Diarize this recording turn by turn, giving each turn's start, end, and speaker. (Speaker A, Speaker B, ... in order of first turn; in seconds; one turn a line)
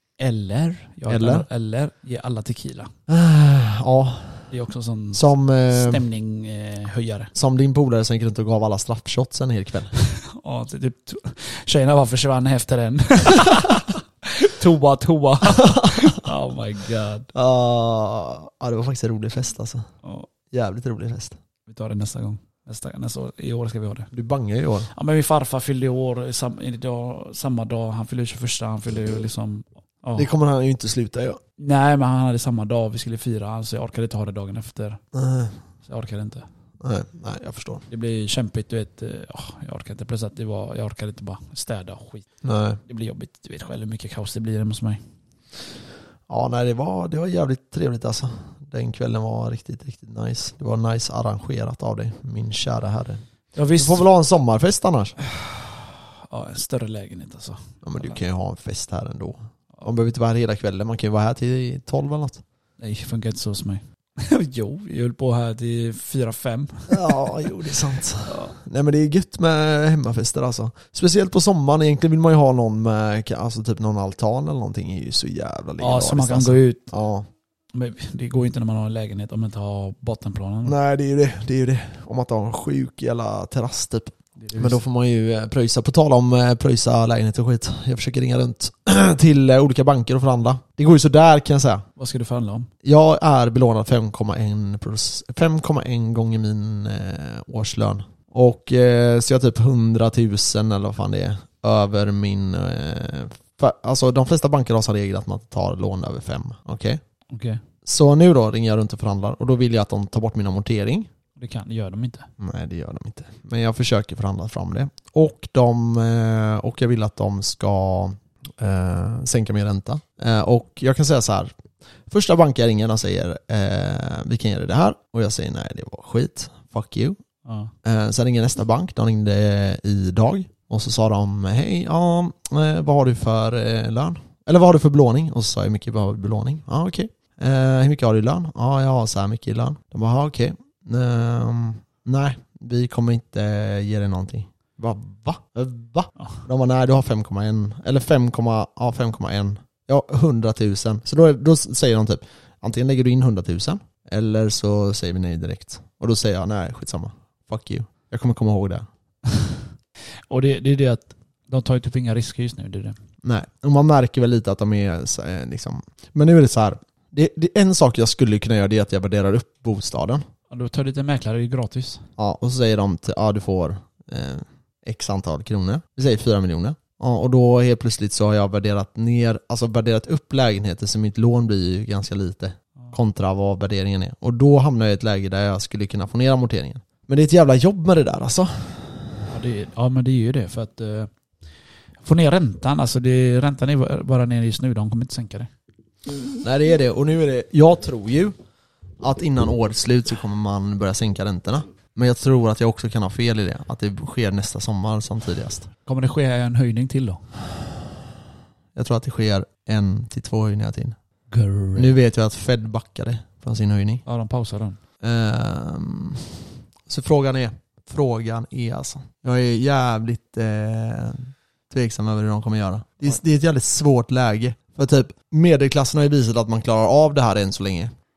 Speaker A: 0.2-2.9
Speaker B: 1.1-1.4
Speaker B: 3.1-4.5
Speaker A: 4.5-7.3
Speaker B: 5.1-6.0
Speaker B: 7.3-9.9
Speaker A: 10.2-17.3
Speaker B: 15.5-16.2
Speaker B: 17.3-19.9
Speaker A: 20.0-20.3
Speaker B: 20.5-21.4
Speaker A: 21.7-24.1
Speaker B: 24.1-24.9
Speaker A: 24.9-30.3
Speaker B: 30.1-31.4
Speaker A: 31.6-35.0
Speaker B: 35.1-35.6
Speaker A: 35.9-36.5
Speaker B: 36.8-37.9
Speaker A: 37.9-42.2
Speaker B: 42.4-42.8
Speaker A: 42.9-45.0
Speaker B: 46.3-53.2
Speaker A: 53.5-54.0
Speaker B: 53.8-55.2
Speaker A: 55.2-58.2
Speaker B: 57.8-62.4
Speaker A: 62.8-67.5
Speaker B: 66.9-77.3
Speaker A: 68.2-68.5
Speaker A: 75.8-76.9
Speaker A: 77.7-80.7
Speaker B: 80.6-91.8
Speaker A: 84.4-84.8
Speaker A: 92.0-92.7
Speaker B: 92.8-107.0
Speaker A: 107.3-107.6
Speaker B: 107.8-111.1
Speaker A: 111.4-112.3
Speaker B: 112.4-121.5
Speaker B: 122.1-127.2
Speaker A: 127.4-127.7
Speaker B: 127.8-158.9
Speaker A: 160.3-162.9
Speaker B: 163.2-170.2
Speaker A: 170.5-172.0
Speaker B: 172.2-189.1
Speaker A: 189.3-191.1
Speaker A: 192.0-195.5
Speaker B: 196.4-198.3
Speaker B: 199.0-205.7
Speaker A: 205.9-207.2
Speaker B: 208.7-210.9
Speaker A: 211.3-211.9
Speaker B: 211.7-214.0
Speaker A: 214.1-214.8
Speaker B: 215.0-227.9